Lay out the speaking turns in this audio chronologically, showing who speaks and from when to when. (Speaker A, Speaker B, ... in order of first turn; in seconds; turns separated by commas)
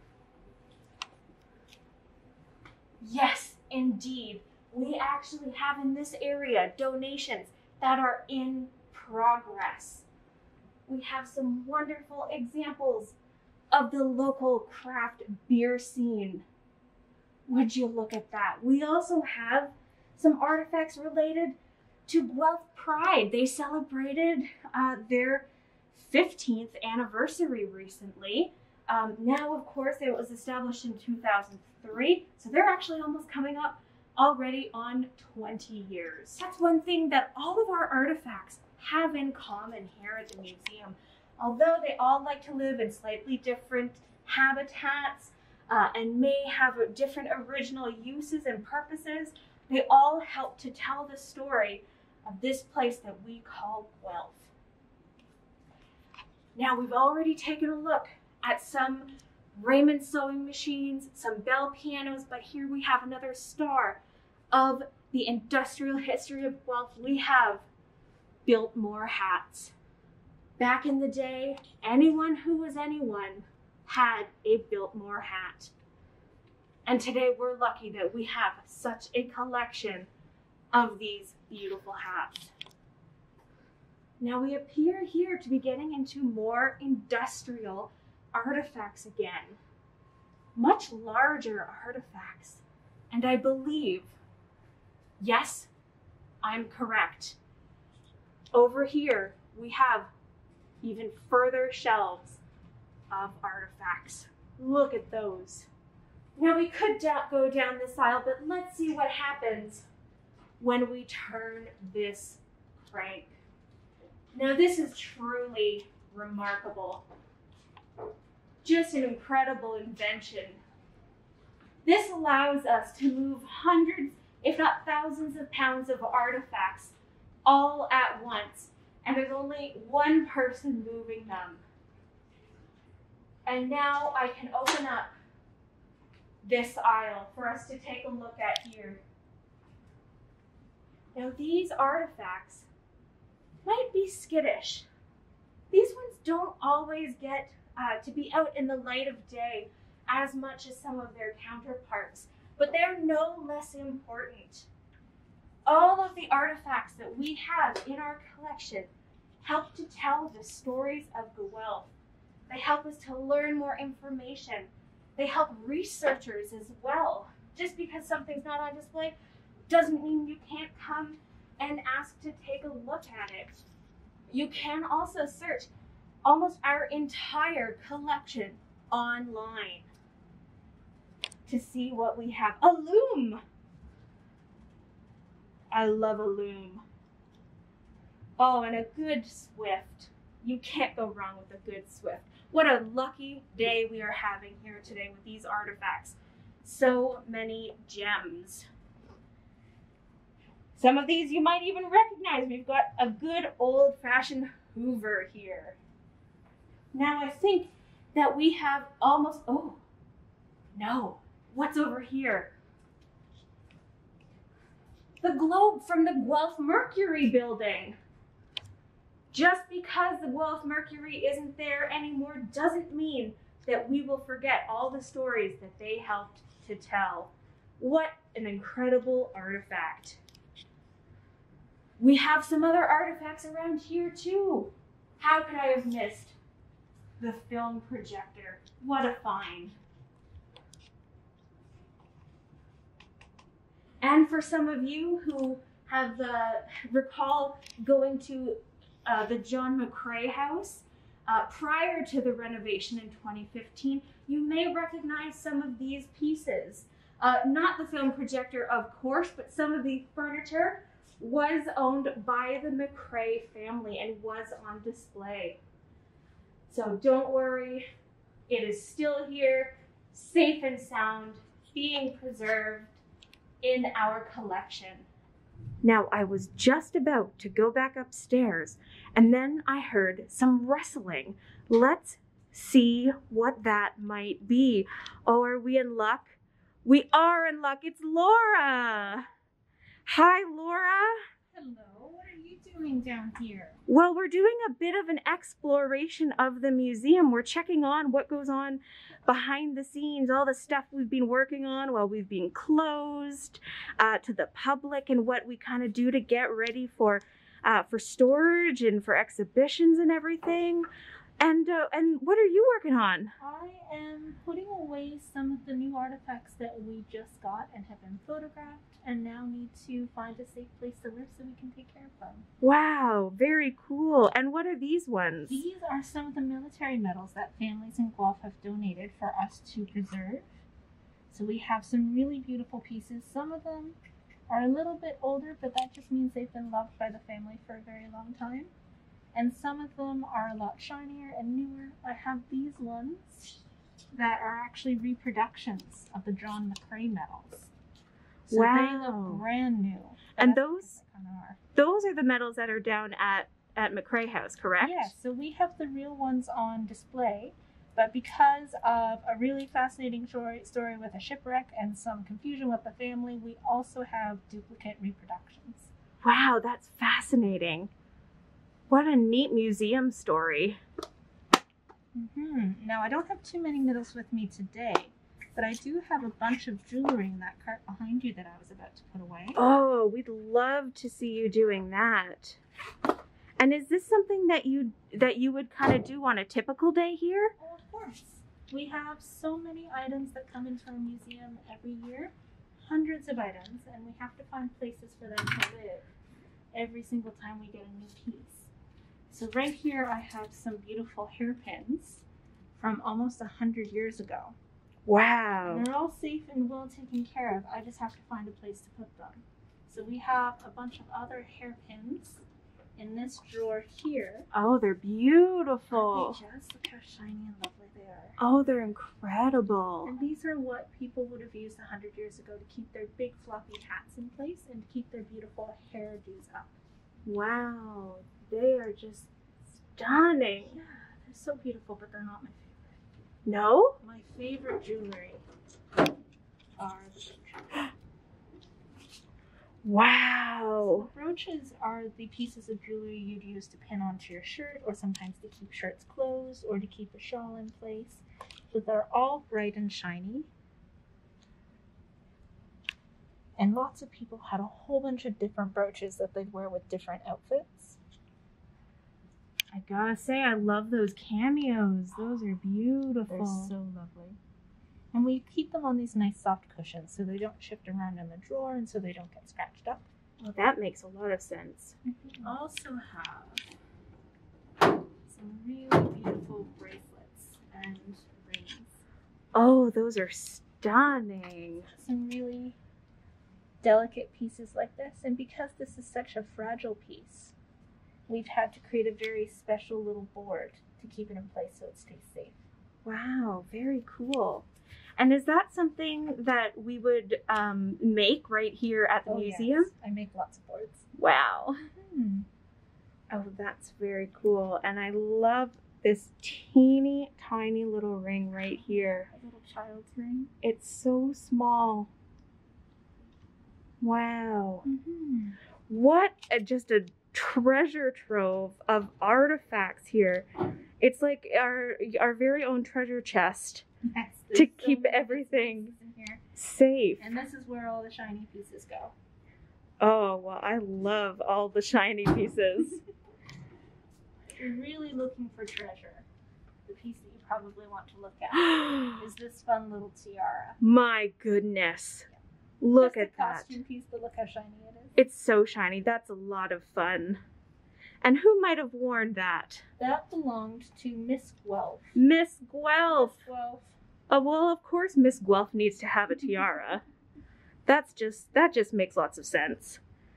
Speaker A: 3.0-10.1, Speaker A: 10.9-13.2, Speaker A: 13.7-16.4, Speaker A: 17.5-54.5, Speaker A: 56.5-64.0, Speaker A: 64.5-67.7, Speaker A: 68.5-69.7, Speaker A: 70.6-75.7, Speaker A: 76.8-80.1, Speaker A: 80.7-82.5, Speaker A: 84.2-89.6, Speaker A: 90.5-94.1, Speaker A: 95.2-95.7, Speaker A: 96.4-97.4, Speaker A: 98.5-100.1, Speaker A: 100.8-102.4, Speaker A: 103.1-105.7, Speaker A: 106.3-109.9, Speaker A: 110.6-113.4, Speaker A: 114.3-117.0, Speaker A: 118.6-120.6, Speaker A: 121.8-131.6, Speaker A: 133.4-135.1, Speaker A: 136.4-139.0, Speaker A: 141.1-142.7, Speaker A: 143.6-144.9, Speaker A: 145.7-154.7, Speaker A: 155.7-158.9, Speaker A: 159.4-161.9, Speaker A: 162.5-169.1, Speaker A: 169.7-173.7, Speaker A: 174.3-175.7, Speaker A: 176.2-179.9, Speaker A: 181.5-183.4, Speaker A: 185.7-186.8, Speaker A: 188.4-198.7, Speaker A: 200.7-205.8, Speaker A: 206.9-209.8, Speaker A: 210.7-212.5, Speaker A: 215.2-218.0, Speaker A: 219.3-230.2, Speaker A: 232.0-236.3, Speaker A: 237.2-239.8, Speaker A: 244.0-265.6, Speaker A: 266.7-267.9, Speaker A: 268.5-273.0, Speaker A: 273.6-275.1, Speaker A: 275.8-289.3, Speaker A: 290.1-291.2, Speaker B: 291.5-293.8, Speaker A: 293.9-310.9, Speaker A: 311.4-313.3, Speaker B: 313.4-322.5, Speaker A: 322.6-325.6, Speaker B: 325.5-330.5, Speaker B: 331.3-334.0, Speaker B: 334.5-338.7, Speaker B: 339.3-343.6, Speaker B: 344.1-347.7, Speaker B: 348.5-351.6, Speaker A: 348.5-349.4, Speaker A: 350.4-350.9, Speaker A: 351.7-355.1, Speaker B: 354.8-365.9, Speaker A: 366.2-367.9, Speaker A: 368.9-370.8, Speaker B: 372.1-379.6, Speaker A: 379.5-382.6, Speaker A: 383.6-387.5, Speaker B: 387.6-396.1, Speaker B: 396.7-398.7, Speaker B: 399.3-402.2, Speaker B: 402.8-404.5, Speaker A: 405.1-405.9, Speaker B: 405.6-412.4, Speaker B: 413.0-414.4, Speaker A: 414.5-416.4, Speaker B: 415.9-418.4, Speaker A: 418.4-420.1, Speaker B: 420.0-426.8, Speaker A: 427.2-429.3, Speaker A: 429.9-430.8, Speaker B: 430.6-432.9, Speaker A: 433.4-434.0, Speaker B: 434.0-435.4, Speaker B: 436.8-437.9, Speaker A: 439.8-441.1, Speaker B: 440.8-450.5, Speaker B: 453.6-458.0, Speaker A: 459.7-463.7, Speaker B: 463.3-464.4, Speaker B: 465.1-470.1, Speaker A: 470.4-472.0, Speaker B: 472.1-473.6, Speaker B: 475.2-479.0, Speaker A: 479.5-481.9, Speaker B: 481.9-482.8, Speaker B: 483.8-487.5, Speaker B: 488.3-492.6, Speaker A: 493.0-499.9, Speaker B: 499.2-501.1, Speaker A: 501.1-501.8, Speaker B: 501.8-502.5, Speaker A: 503.3-509.3, Speaker B: 508.7-510.5, Speaker A: 510.6-512.1, Speaker A: 514.0-514.9, Speaker B: 514.8-515.6, Speaker A: 515.9-520.5, Speaker A: 521.0-523.9, Speaker B: 524.0-526.4, Speaker A: 524.5-526.0, Speaker A: 526.5-527.3, Speaker B: 527.2-529.1, Speaker A: 530.0-533.0, Speaker B: 534.5-536.2, Speaker B: 536.9-540.8, Speaker A: 538.5-539.2, Speaker A: 540.8-542.3, Speaker A: 542.8-543.8, Speaker B: 543.0-545.2, Speaker A: 545.1-547.4, Speaker A: 548.2-549.9, Speaker B: 550.0-552.1, Speaker A: 552.1-553.4, Speaker B: 553.1-554.0, Speaker A: 554.3-557.0, Speaker A: 557.9-560.0